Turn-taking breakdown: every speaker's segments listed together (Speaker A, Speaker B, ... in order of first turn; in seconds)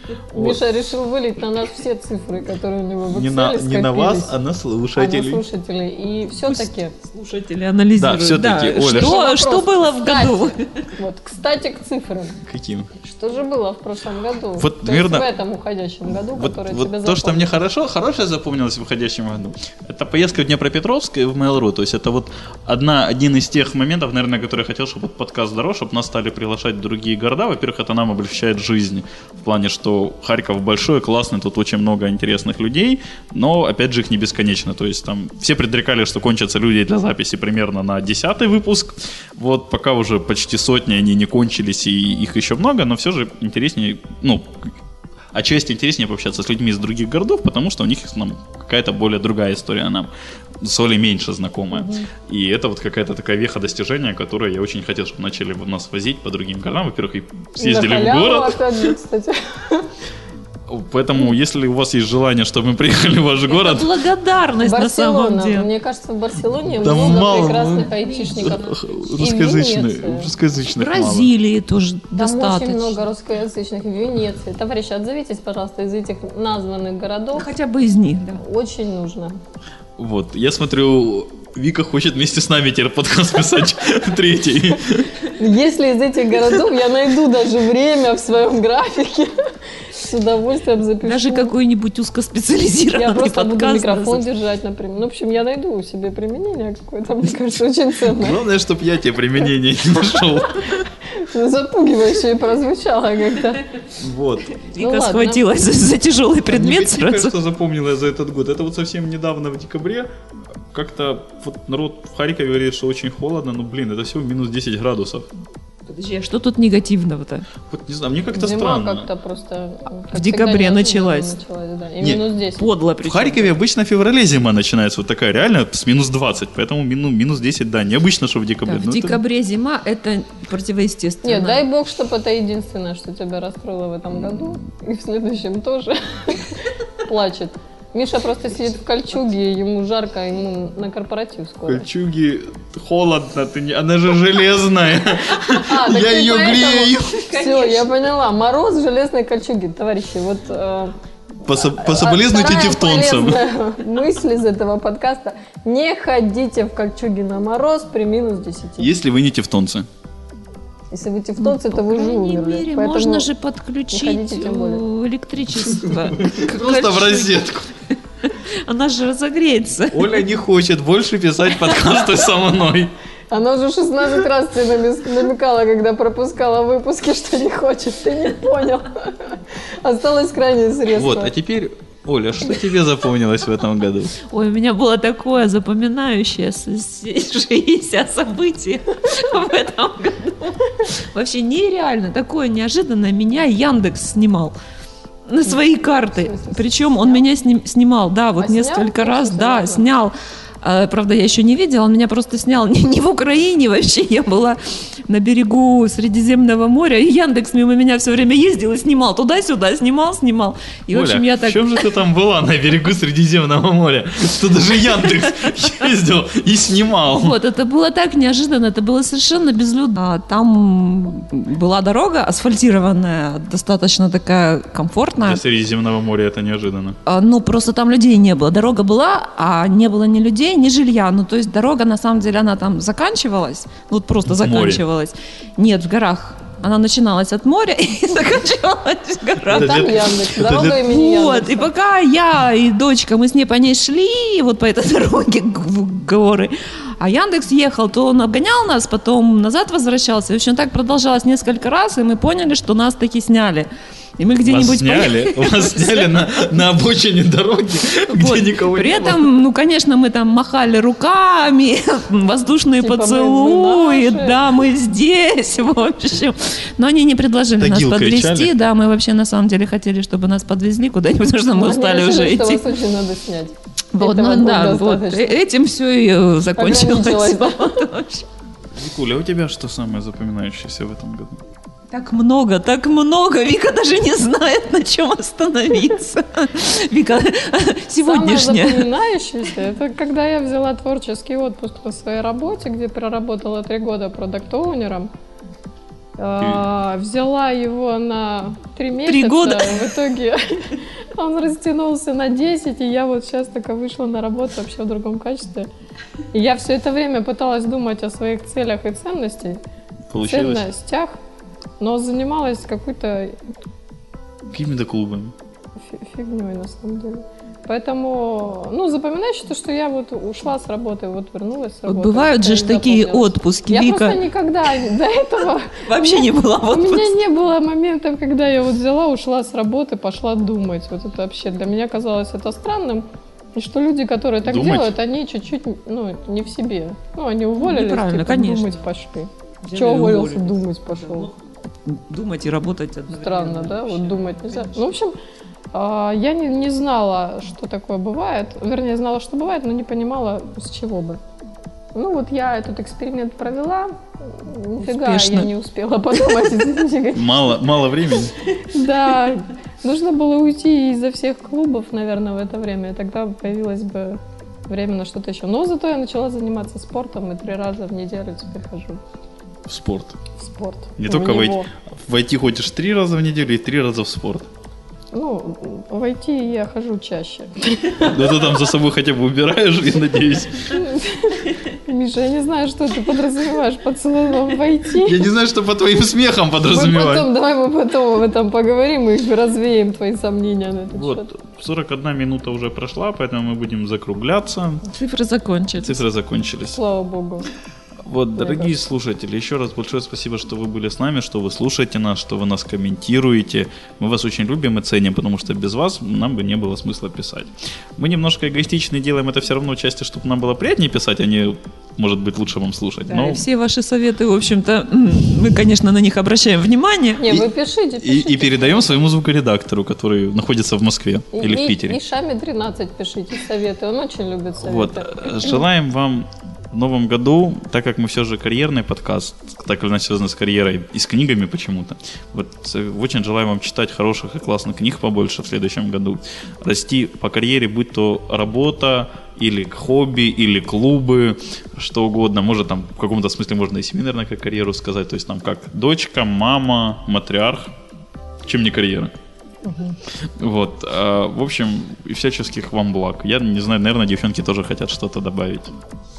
Speaker A: 0.3-4.3, 5.0-6.9, 8.9-12.4, 13.0-17.6, 51.7-52.1, 57.6-59.9, 64.6-70.3, 72.2-77.5, 78.4-79.4, 85.3-89.3, 89.8-91.5, 92.9-98.4, 101.0-103.7, 104.8-105.5, 118.3-122.7, 131.2-141.9, 145.5-151.0, 151.6-158.9, 160.9-163.3, 163.9-164.8, 173.3-181.3, 195.5-197.2, 198.4-199.9, 239.5-241.7, 262.8-264.4, 271.5-275.4, 276.6-277.9, 288.0-295.1, 296.2-305.7, 306.3-309.6, 310.2-311.1, 311.8-313.4, 315.8-341.3, 343.1-345.2, 345.7-351.2, 351.9-357.5, 358.6-369.0, 370.4-371.7, 375.1-378.6, 380.7-385.3, 386.7-391.3, 396.8-397.5, 398.4-398.8, 417.2-418.9, 421.3-425.3, 449.6-450.0
Speaker B: 0.3-0.6, 3.1-5.4, 8.0-9.2, 12.4-12.9, 14.6-15.3, 16.2-44.8, 45.3-58.9, 60.7-64.0, 66.8-71.3, 80.0-85.2, 98.1-100.9, 104.0-104.5, 106.5-110.1, 110.7-115.3, 117.7-119.1, 122.0-122.3, 123.0-129.2, 141.7-147.2, 151.4-153.4, 158.8-159.9, 165.6-167.7, 169.9-172.9, 180.9-184.2, 210.9-217.4, 225.2-227.0, 234.3-234.8, 239.5-240.9, 254.4-259.3, 267.6-268.5, 278.7-281.4, 310.1-310.7, 314.5-315.3, 334.4-335.0, 357.1-358.3, 369.7-370.2, 371.0-374.5, 378.0-380.8, 385.0-387.3, 390.9-394.8, 395.8-396.8, 398.0-413.4, 418.0-422.0, 424.6-447.7, 448.4-449.1, 450.4-455.8
Speaker C: 7.0-10.8, 63.5-65.7, 67.3-68.6, 70.7-73.0, 77.3-78.4, 91.0-94.2, 104.6-107.3, 115.9-117.5, 120.1-121.4, 122.5-123.5, 128.7-131.7, 147.2-147.9, 161.4-167.5, 168.2-170.2, 184.3-194.6, 195.3-211.9, 217.2-225.4, 227.1-239.9, 240.6-253.7, 254.2-256.2, 258.1-272.8, 273.9-278.3, 281.9-288.9, 299.1-299.9, 321.9-324.2, 325.8-327.1, 337.6-338.9, 339.6-344.9, 354.8-355.5, 394.8-396.0, 413.1-417.2